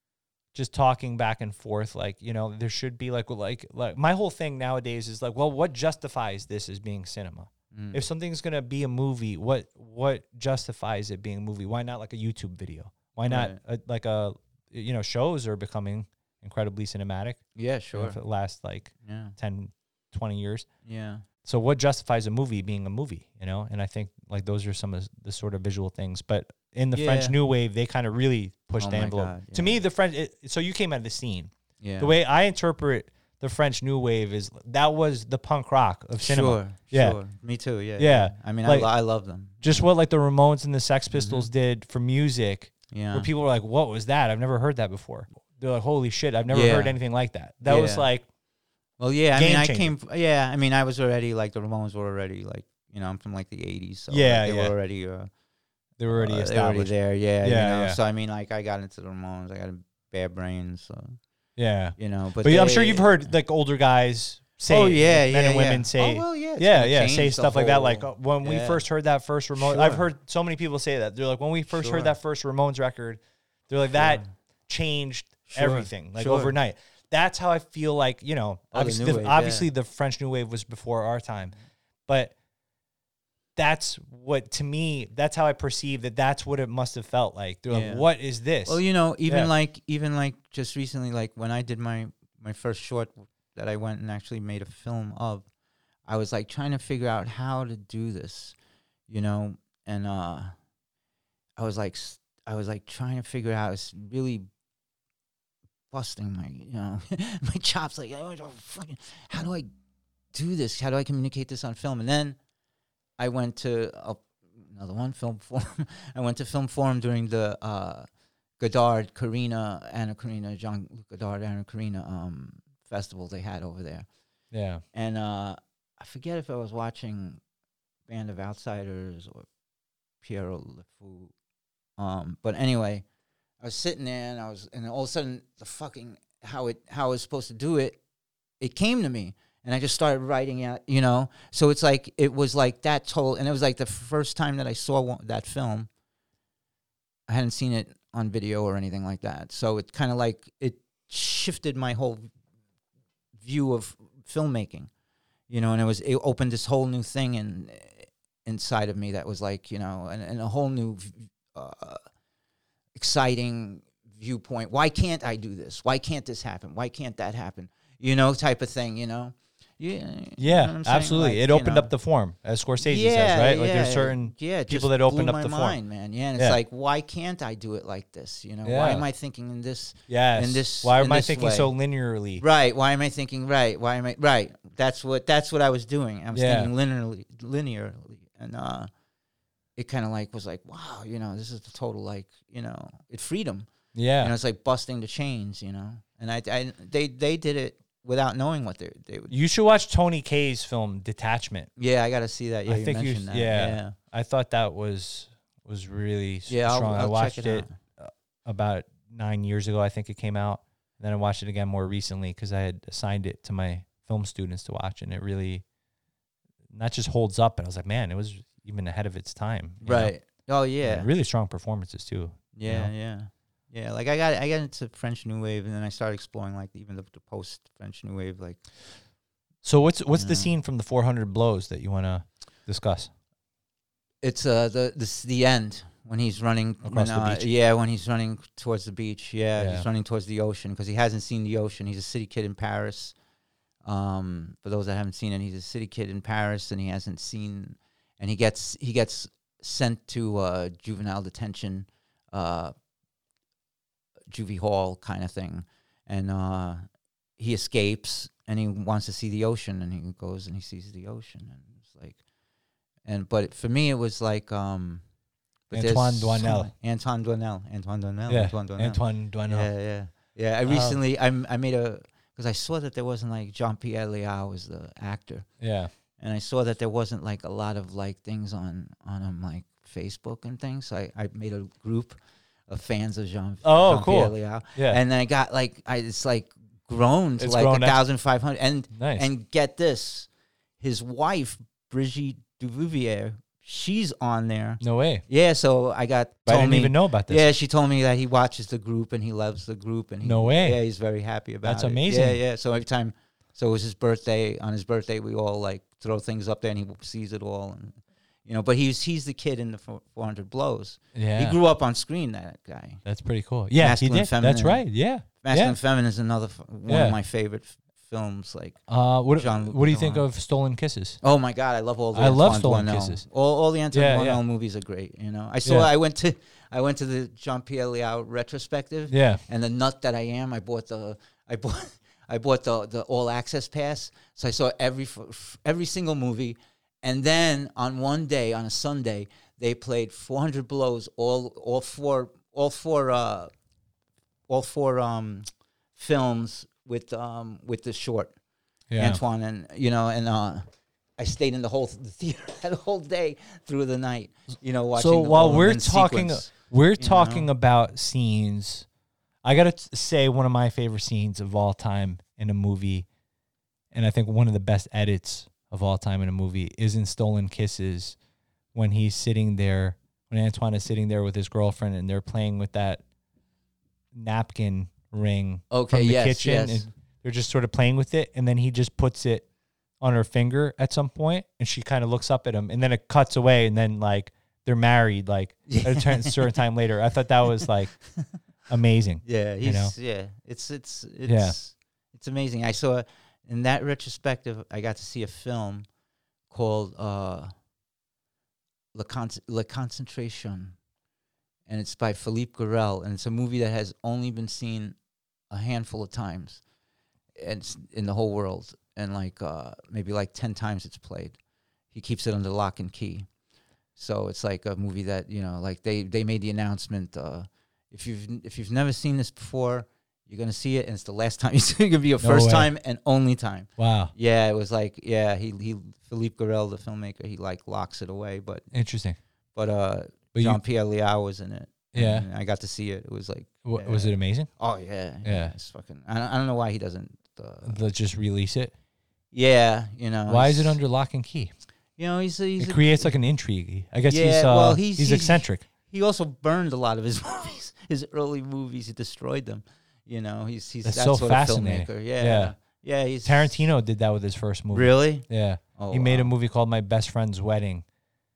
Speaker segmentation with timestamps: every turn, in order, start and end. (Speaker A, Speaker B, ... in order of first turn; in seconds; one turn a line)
Speaker A: 0.5-20.7
Speaker B: 7.7-8.0
Speaker B: 13.3-13.6
Speaker B: 17.6-18.2
Speaker B: 19.0-19.4
Speaker B: 20.8-21.2
Speaker A: 21.4-37.2
Speaker B: 26.9-27.4
Speaker B: 28.8-29.8
Speaker B: 31.8-32.1
Speaker B: 36.2-39.9
Speaker A: 38.0-38.9
Speaker A: 39.6-48.2
Speaker B: 41.1-41.5
Speaker B: 42.9-43.3
Speaker B: 46.5-47.0
Speaker B: 47.6-48.1
Speaker B: 49.0-55.3
Speaker A: 49.3-49.9
Speaker A: 54.1-54.7
Speaker A: 56.0-58.0
Speaker B: 56.1-61.1
Speaker A: 61.6-81.5
Speaker B: 62.0-63.3
Speaker B: 64.7-68.8
Speaker B: 69.5-70.0
Speaker B: 71.7-72.1
Speaker B: 73.9-74.3
Speaker B: 75.5-76.5
Speaker B: 78.7-79.7
Speaker A: 82.1-82.3
Speaker A: 83.5-89.5
Speaker B: 87.7-88.1
Speaker B: 88.6-95.5
Speaker B: 96.0-98.5
Speaker B: 99.1-100.5
Speaker B: 101.6-104.5
Speaker B: 105.9-109.7
Speaker B: 110.3-112.4
Speaker B: 113.2-118.1
Speaker B: 118.6-124.1
Speaker A: 124.5-124.8
Speaker B: 124.9-127.4
Speaker B: 128.1-129.5
Speaker B: 130.2-131.3
Speaker B: 132.0-133.0
Speaker B: 133.6-138.0
Speaker B: 138.6-145.9
Speaker B: 147.3-152.3
Speaker B: 153.4-154.9
Speaker B: 155.5-162.0
Speaker B: 162.9-171.9
Speaker A: 170.4-175.8
Speaker B: 172.8-181.7
Speaker A: 178.6-179.1
Speaker A: 180.1-182.4
Speaker B: 182.4-188.9
Speaker A: 186.3-186.7
Speaker B: 189.8-199.3
Speaker A: 193.9-194.3
Speaker A: 199.3-201.7
Speaker B: 201.8-203.9
Speaker A: 202.7-215.6
Speaker B: 206.5-207.8
Speaker A: 216.7-220.2
Speaker B: 219.8-221.1
Speaker A: 220.8-222.9
Speaker B: 222.5-228.6
Speaker A: 229.6-233.1
Speaker B: 230.1-230.5
Speaker B: 234.2-243.2
Speaker A: 236.8-237.5
Speaker A: 239.6-239.8
Speaker B: 243.8-252.7
Speaker B: 254.3-256.8
Speaker B: 257.4-262.2
Speaker B: 263.0-265.0
Speaker B: 265.7-275.5
Speaker A: 265.7-266.7
Speaker A: 268.3-269.7
Speaker A: 270.7-271.0
Speaker A: 275.6-275.9
Speaker B: 276.2-290.3
Speaker A: 283.6-285.0
Speaker A: 287.4-288.0
Speaker A: 288.9-289.3
Speaker B: 290.8-313.0
Speaker A: 294.8-295.2
Speaker A: 296.4-297.4
Speaker A: 300.2-300.8
Speaker A: 301.6-302.4
Speaker A: 311.1-311.6
Speaker A: 313.0-315.8
Speaker B: 313.7-318.8
Speaker A: 316.9-317.2
Speaker A: 318.9-321.2
Speaker B: 319.3-320.2
Speaker B: 321.2-343.5
Speaker A: 322.1-323.3
Speaker A: 323.9-324.4
Speaker A: 325.6-325.9
Speaker A: 329.1-329.4
Speaker B: 344.5-348.3
Speaker A: 348.9-349.2
Speaker B: 348.9-350.6
Speaker B: 351.2-357.5
Speaker A: 354.9-358.9
Speaker A: 359.4-363.1
Speaker A: 363.9-368.1
Speaker A: 368.7-373.0
Speaker A: 374.1-379.5
Speaker B: 375.7-376.9
Speaker A: 380.0-388.1
Speaker B: 385.7-386.5
Speaker A: 388.7-389.9
Speaker B: 389.2-395.9
Speaker A: 391.3-391.6
Speaker B: 396.5-397.5
Speaker B: 398.9-400.8
Speaker B: 401.7-405.0
Speaker B: 405.5-406.6
Speaker B: 407.4-411.4
Speaker B: 411.9-413.3
Speaker B: 413.9-428.6
Speaker A: 422.2-422.7
Speaker A: 423.8-424.1
Speaker A: 428.7-429.2
Speaker B: 429.5-437.8
Speaker A: 430.3-430.6
Speaker A: 431.9-432.3
Speaker A: 433.6-434.5
Speaker A: 435.2-435.5
Speaker A: 437.6-438.7
Speaker B: 439.3-440.8
Speaker A: 440.3-441.5
Speaker B: 442.0-443.1
Speaker A: 442.6-445.6
Speaker B: 444.1-453.7
Speaker A: 450.8-452.6
Speaker A: 453.2-457.9
Speaker B: 454.7-456.3